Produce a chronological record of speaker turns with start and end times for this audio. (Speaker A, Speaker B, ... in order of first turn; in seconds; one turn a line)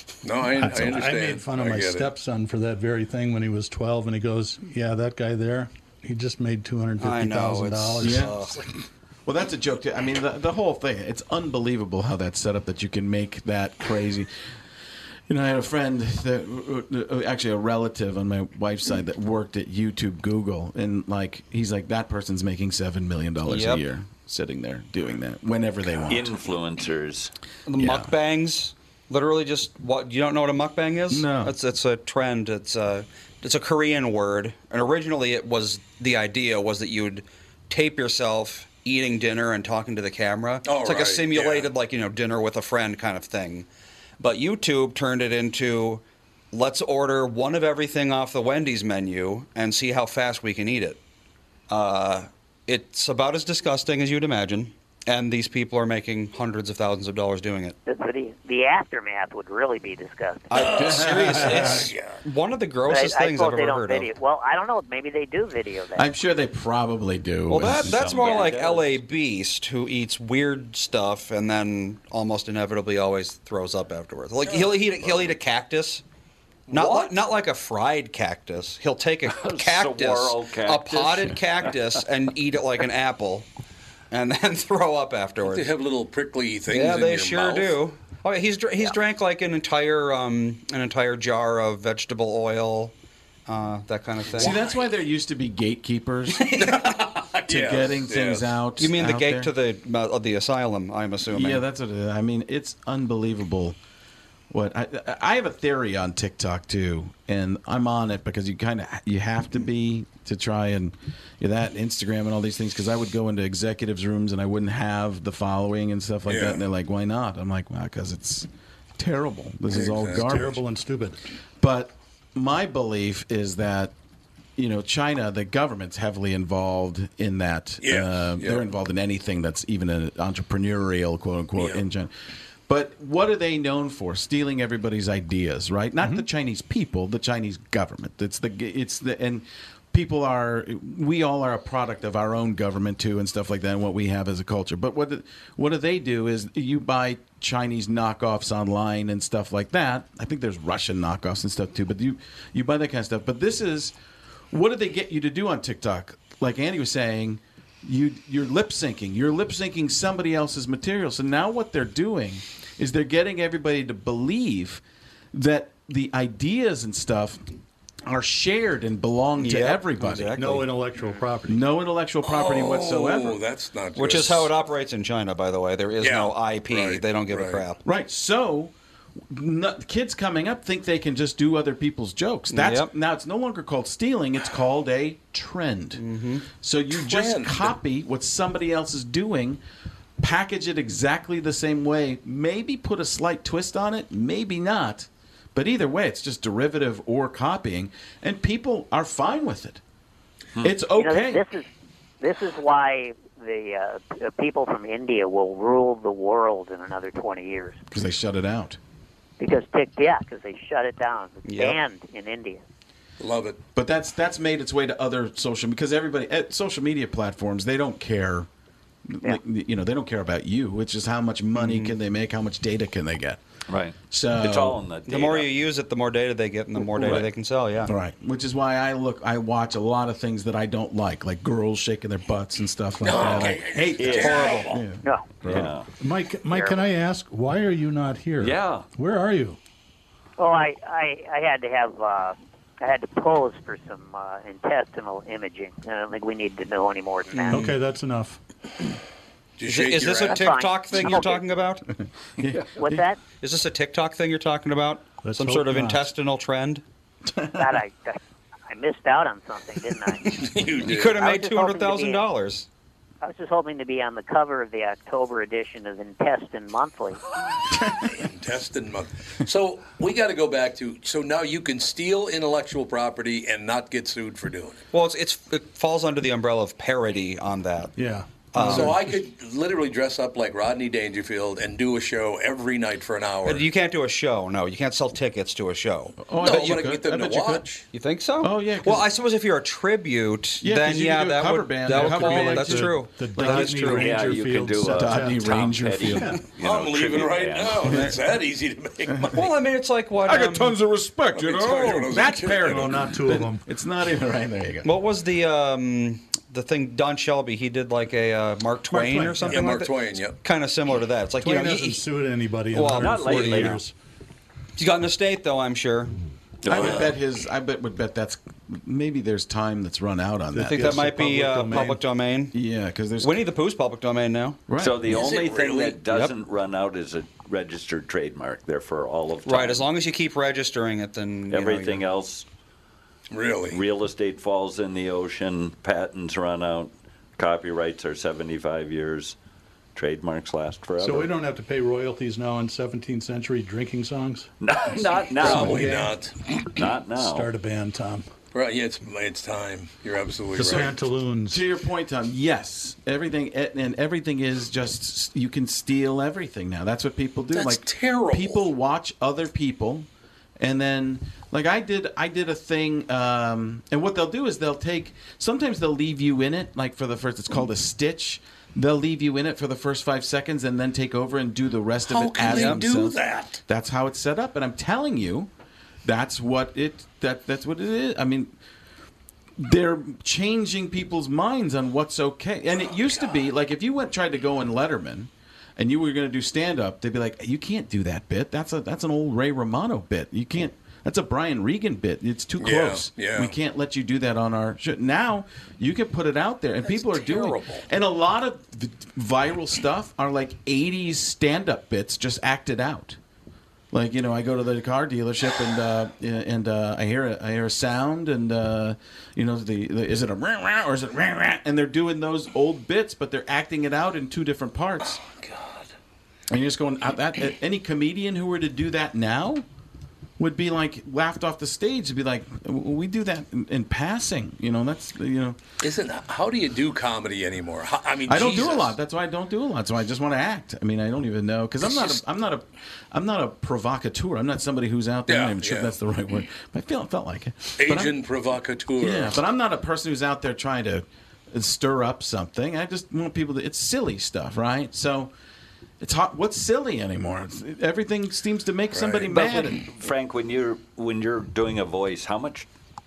Speaker A: 0.2-2.1
Speaker B: 0.6-8.7
Speaker C: 7.0-8.6
Speaker D: 8.0-8.3
Speaker D: 9.2-14.3
Speaker D: 15.3-26.3
Speaker C: 23.4-23.8
Speaker E: 26.1-27.3
Speaker C: 27.6-43.7
Speaker D: 27.8-28.1
Speaker D: 31.1-31.5
Speaker A: 40.6-41.7
Speaker C: 44.2-51.0
Speaker C: 51.7-57.8
Speaker F: 57.9-60.7
Speaker C: 60.5-64.1
Speaker A: 60.5-62.2
Speaker F: 62.8-66.1
Speaker D: 65.9-68.1
Speaker C: 67.5-76.0
Speaker E: 67.6-68.9
Speaker C: 76.7-83.5
Speaker E: 76.7-77.1
Speaker E: 79.3-81.7
Speaker C: 84.1-85.7
Speaker A: 85.4-87.8
Speaker C: 86.7-92.9
Speaker C: 93.5-94.6
Speaker D: 94.4-96.5
Speaker A: 96.4-98.6
Speaker D: 97.5-99.5
Speaker C: 98.8-101.6
Speaker D: 101.3-103.8
Speaker D: 104.5-120.6
Speaker A: 116.2-116.6
Speaker A: 119.7-120.2
Speaker B: 120.1-121.2
Speaker D: 121.6-123.9
Speaker D: 124.5-132.1
Speaker A: 127.8-128.6
Speaker A: 131.6-131.8
Speaker D: 132.7-153.9
Speaker D: 154.5-164.8
Speaker D: 165.3-167.4
Speaker D: 168.1-170.5
Speaker C: 169.4-170.7
Speaker B: 170.3-171.7
Speaker D: 171.5-173.4
Speaker A: 172.2-174.5
Speaker C: 173.9-177.8
Speaker A: 176.0-177.6
Speaker D: 177.8-178.7
Speaker D: 179.3-189.6
Speaker C: 182.5-182.9
Speaker C: 186.0-186.5
Speaker A: 186.9-187.7
Speaker D: 190.2-199.8
Speaker D: 200.6-201.4
Speaker F: 200.9-201.7
Speaker F: 202.2-207.8
Speaker D: 207.9-208.8
Speaker F: 209.4-212.6
Speaker C: 211.4-211.8
Speaker A: 213.2-213.6
Speaker D: 213.7-218.5
Speaker D: 219.1-223.4
Speaker C: 221.5-221.9
Speaker E: 223.7-225.5
Speaker D: 224.1-224.8
Speaker C: 225.1-227.9
Speaker E: 227.0-227.2
Speaker D: 227.8-235.7
Speaker A: 233.0-234.8
Speaker E: 234.0-234.6
Speaker C: 234.1-234.7
Speaker F: 235.0-235.4
Speaker E: 235.4-235.9
Speaker B: 236.0-239.6
Speaker F: 236.5-236.9
Speaker E: 238.4-238.8
Speaker F: 240.4-247.7
Speaker C: 247.4-247.8
Speaker B: 247.5-248.4
Speaker A: 249.6-250.5
Speaker C: 249.6-251.9
Speaker F: 250.2-251.4
Speaker D: 252.4-253.1
Speaker F: 252.8-253.2
Speaker C: 253.3-256.8
Speaker B: 255.2-256.1
Speaker D: 257.4-257.7
Speaker F: 257.5-260.5
Speaker A: 260.4-261.2
Speaker C: 260.8-262.7
Speaker F: 261.1-262.2
Speaker F: 263.2-267.2
Speaker A: 268.0-274.8
Speaker C: 274.9-277.9
Speaker B: 278.0-279.2
Speaker C: 278.5-279.0
Speaker A: 278.6-283.7
Speaker C: 283.4-286.3
Speaker D: 286.2-287.6
Speaker A: 286.4-287.8
Speaker C: 287.9-294.3
Speaker D: 288.4-289.1
Speaker D: 290.6-294.0
Speaker B: 291.9-296.4
Speaker E: 293.5-298.1
Speaker D: 294.9-296.4
Speaker A: 296.6-299.5
Speaker C: 297.8-298.1
Speaker C: 299.3-300.8
Speaker D: 300.2-304.9
Speaker A: 301.3-303.0
Speaker B: 302.4-303.6
Speaker C: 304.8-312.0
Speaker B: 308.9-309.8
Speaker A: 309.4-310.4
Speaker B: 311.4-313.9
Speaker C: 312.7-313.8
Speaker E: 312.9-313.8
Speaker C: 314.8-316.1
Speaker E: 316.6-317.1
Speaker D: 316.6-321.1
Speaker A: 316.7-317.1
Speaker B: 320.5-322.0
Speaker C: 320.6-322.5
Speaker D: 322.5-323.4
Speaker C: 323.2-324.6
Speaker D: 324.7-325.0
Speaker E: 324.8-329.9
Speaker A: 325.1-326.0
Speaker C: 329.4-332.0
Speaker E: 331.5-332.4
Speaker A: 333.3-333.8
Speaker E: 333.7-339.3
Speaker E: 339.9-341.3
Speaker B: 341.0-344.5
Speaker E: 344.6-346.1
Speaker B: 345.4-346.1
Speaker A: 345.4-346.3
Speaker E: 346.6-347.5
Speaker B: 347.1-348.2
Speaker A: 348.5-350.9
Speaker B: 350.5-351.6
Speaker D: 351.5-360.1
Speaker A: 357.5-358.7
Speaker D: 360.6-375.5
Speaker A: 372.1-373.6
Speaker C: 372.4-372.8
Speaker D: 376.0-378.5
Speaker D: 379.6-403.2
Speaker A: 392.6-393.5
Speaker A: 396.8-397.9
Speaker D: 403.9-415.2
Speaker A: 415.4-415.7
Speaker D: 416.5-419.6
Speaker D: 420.4-425.6
Speaker A: 425.8-428.9
Speaker D: 428.2-438.1
Speaker A: 435.3-435.9
Speaker A: 437.8-439.4
Speaker D: 439.0-445.3
Speaker D: 446.0-449.9
Speaker A: 448.9-449.2
Speaker E: 449.2-452.7